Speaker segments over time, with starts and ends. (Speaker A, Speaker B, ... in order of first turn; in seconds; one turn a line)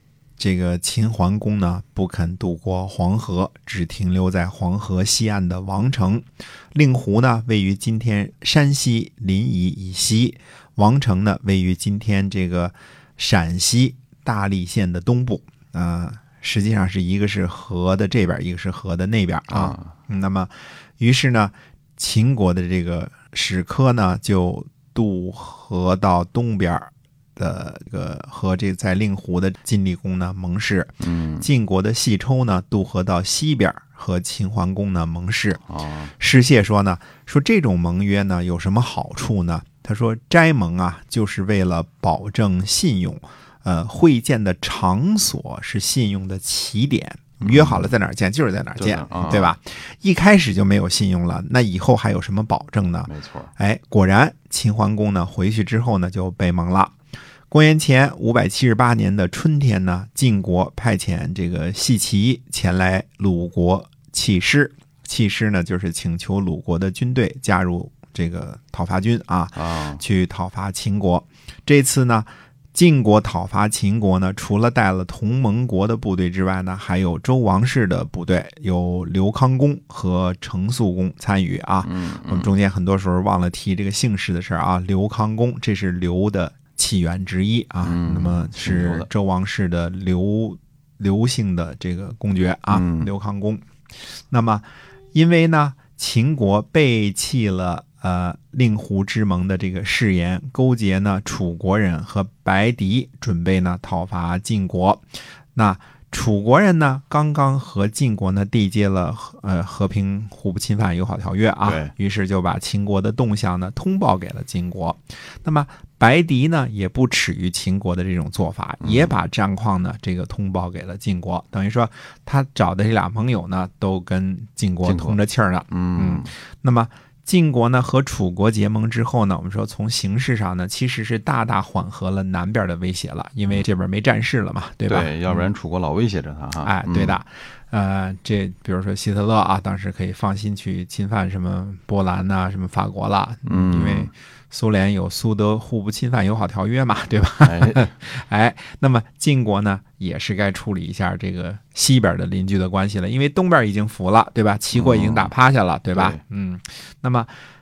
Speaker A: 0.4-35.6
Speaker B: 19.5-19.9
Speaker B: 31.0-31.5
Speaker B: 35.7-36.1
Speaker A: 36.2-56.9
Speaker B: 47.4-47.9
Speaker B: 48.8-49.5
Speaker B: 53.1-53.5
Speaker A: 57.5-93.6
Speaker B: 69.6-70.0
Speaker B: 81.8-82.5
Speaker B: 87.8-89.1
Speaker B: 92.7-93.1
Speaker A: 94.3-105.0
Speaker A: 105.5-135.4
Speaker B: 111.6-111.9
Speaker B: 118.8-119.1
Speaker B: 124.8-125.2
Speaker B: 125.7-126.3
Speaker B: 134.9-137.2
Speaker A: 136.6-157.3
Speaker B: 143.4-144.1
Speaker B: 147.4-147.9
Speaker B: 154.7-155.3
Speaker B: 155.9-156.2